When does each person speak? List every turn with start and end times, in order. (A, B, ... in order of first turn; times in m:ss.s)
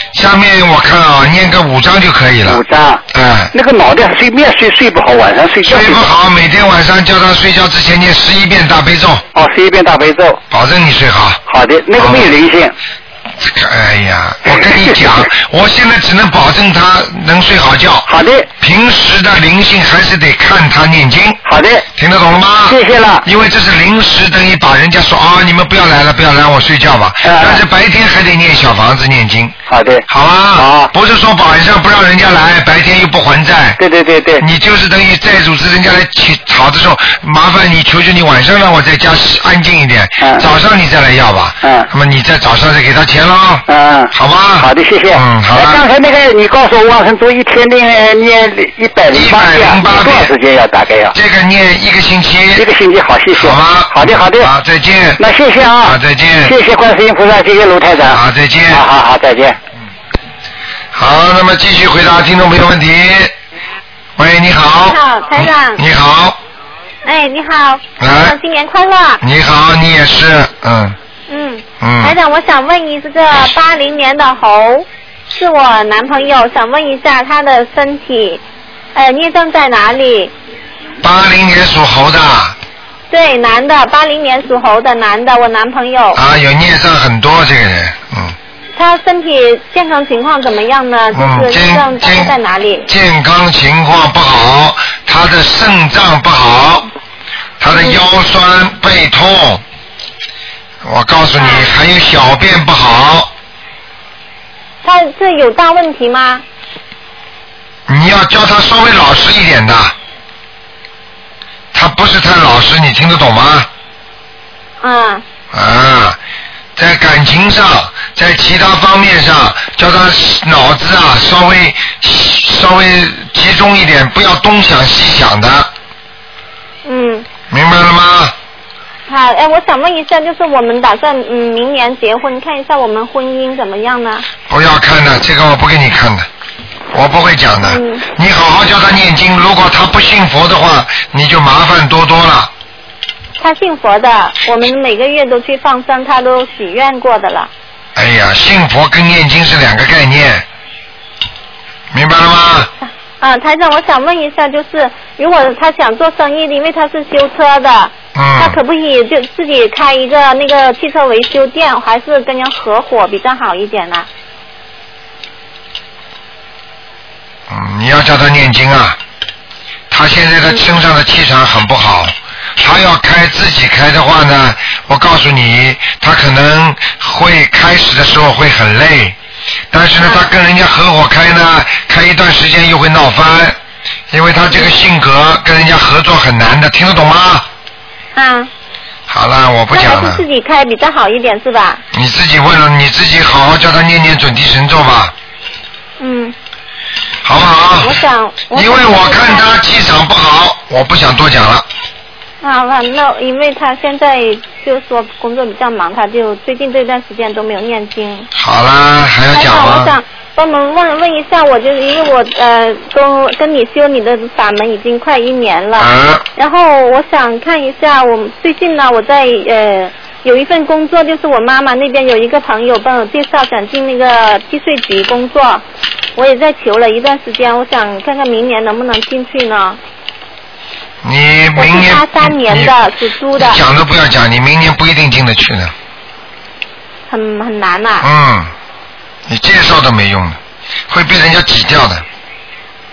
0:00.1-0:03.5 A
0:02.4-0:03.0 B
0:03.5-0:06.1 B
0:05.6-0:09.2 A
0:09.4-0:10.4 B
0:10.5-0:11.4 A
0:11.5-0:12.7 B
0:12.0-0:12.3 A
0:13.4-0:21.4 A
0:14.5-0:15.0 B
0:18.1-0:18.5 B
0:21.5-0:21.8 B
0:22.0-0:29.6 A
0:22.7-0:23.2 B
0:27.2-0:27.6 B
0:29.7-0:30.0 B
0:30.1-0:33.8 A
0:30.6-0:30.9 B
0:33.8-0:34.4 B
0:34.4-0:45.8 A
0:41.6-0:41.9 B
0:43.7-0:51.1 B
0:49.1-0:50.3 A
0:51.1-0:52.7 A
0:52.6-0:54.5 B
0:53.3-0:55.2 A
0:55.2-0:59.6 B
0:55.8-0:56.6 A
0:58.1-0:58.8 A
1:00.9-1:03.3 A
1:04.2-1:06.4 A
1:04.9-1:05.8 C
1:07.0-1:09.2 C
1:08.0-1:08.4 A
1:09.2-1:11.0 A
1:11.3-1:18.4 C
1:11.8-1:12.2 A
1:19.0-1:20.3 C
1:21.0-1:22.6 A
1:23.1-1:26.2 C
1:26.2-1:28.4 A
1:28.8-1:32.9 C
1:31.1-1:36.9 A
1:37.6-1:39.6 A
1:37.7-1:38.0 C
1:40.8-1:43.3 A
1:41.4-1:41.7 C
1:44.8-1:46.4 C
1:47.9-1:50.0 A
1:51.7-1:53.7 A
1:54.8-1:55.2 C
1:55.5-1:56.2 A
1:56.8-2:05.7 A
2:06.8-2:07.3 C
2:07.5-2:08.3 A
2:09.1-2:14.3 C
2:14.5-2:16.3 A
2:16.9-2:22.5 A
2:17.6-2:18.0 C
2:23.4-2:27.5 C
2:28.0-2:30.4 A
2:31.9-2:32.7 A
2:32.8-2:44.1 C
2:38.2-2:38.6 A
2:47.5-2:49.0 A
2:49.9-2:59.2 A
2:59.7-3:03.6 A
3:00.0-3:00.3 C
3:04.1-3:07.5 A
3:08.2-3:08.5 C
3:09.1-3:10.2 A
3:09.7-3:11.8 C
3:11.9-3:15.1 A
3:16.0-3:16.4 C
3:17.2-3:18.0 A
3:17.8-3:19.5 C
3:18.5-3:21.7 A
3:22.4-3:28.3 C
3:28.3-3:30.0 A
3:29.3-3:45.6 C
3:35.8-3:36.2 A
3:46.2-3:49.8 C
3:51.0-3:52.8 A
3:51.6-3:53.6 C
3:53.4-3:55.7 A
3:57.1-3:58.1 C
3:58.0-3:58.5 A
3:59.3-4:02.0 A